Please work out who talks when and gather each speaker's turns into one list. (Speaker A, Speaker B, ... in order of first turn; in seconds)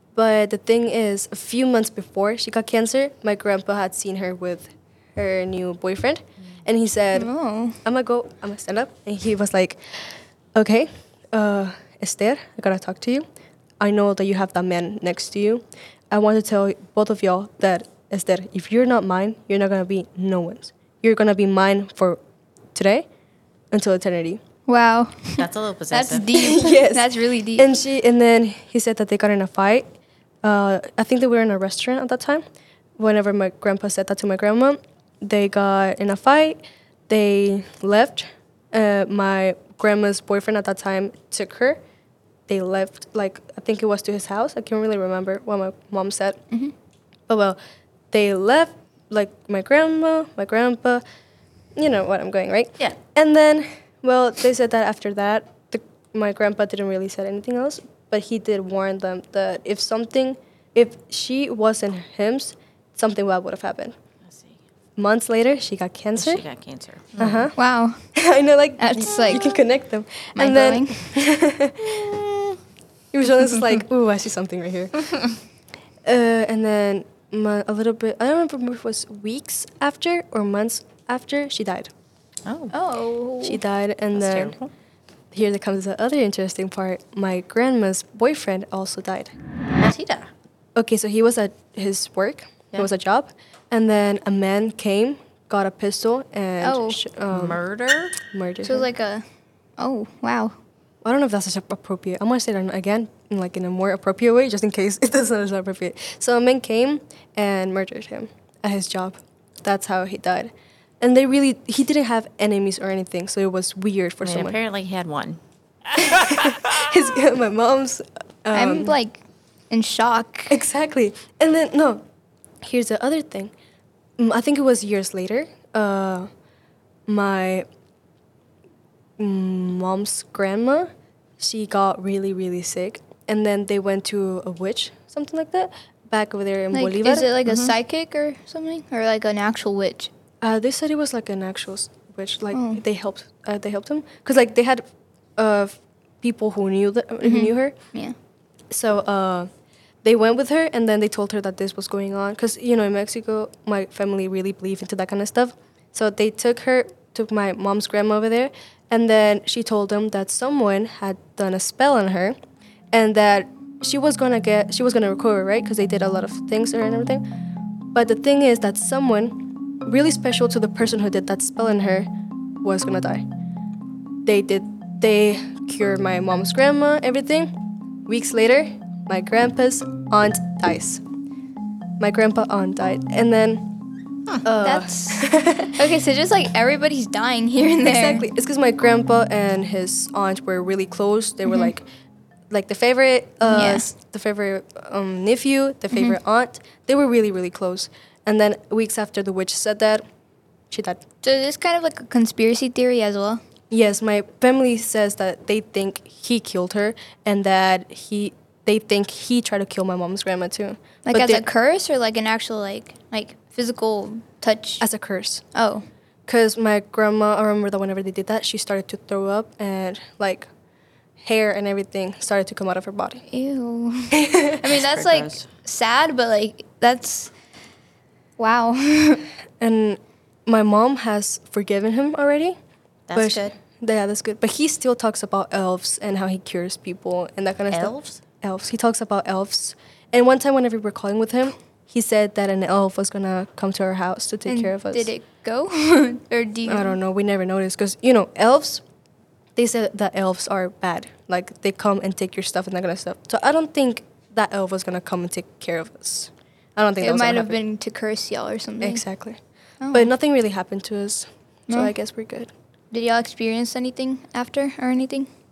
Speaker A: 0.1-7.3, 7.8-13.2, 13.8-22.2, 22.7-23.1, 23.7-24.4, 26.3-32.4, 33.0-41.8, 42.5-46.4, 47.3-47.6, 48.1-51.0, 51.8-63.9, 65.0-66.4, 67.2-67.5, 68.1-72.0, 73.1-75.2, 76.0-81.9, 83.4-84.5, 85.3-89.3, 90.8-97.6, 98.2-98.9, 101.0-114.6, 116.0-118.9, 120.5-122.0, 122.6-123.5, 124.2-126.3, 127.1-127.7, 129.2-137.3, 140.4-147.7, 148.7-149.5, 150.0-162.3, 162.9-167.2, 167.9-172.1, 172.6-173.2, 174.2-177.5, 178.1-181.0, 182.0-183.7, 184.4-185.8, 187.8-191.9, 192.5-200.0, 200.7-201.0, 203.7-211.4, 214.8-215.4, 216.3-220.5, 221.2-223.2, 224.1-224.6, 229.6-232.6, 233.1-245.1, 246.7-248.8, 249.6-257.6, 258.8-259.4, 259.9-262.5
Speaker B: 7.1-7.8, 24.7-27.7, 67.5-68.0, 68.8-69.4, 70.3-71.1, 82.7-83.6, 96.6-97.0, 98.6-99.2, 99.8-100.5, 118.5-120.6, 136.7-140.1, 142.5-142.8, 147.2-148.1, 184.6-188.2, 193.4-193.8, 195.9-196.2, 201.2-203.4, 211.1-214.8, 215.5-215.8, 223.3-227.3, 228.4-229.2, 244.5-247.0, 257.0-259.0, 259.8-260.1, 261.7-261.9, 262.9-265.3
Speaker C: 25.4-26.6, 64.3-64.6, 66.1-67.5, 71.8-72.6, 82.5-82.7, 84.1-84.7, 89.8-90.3, 97.3-98.2, 114.2-115.4, 116.0-116.7, 137.4-137.7, 224.7-225.4, 233.1-233.5, 237.7-238.2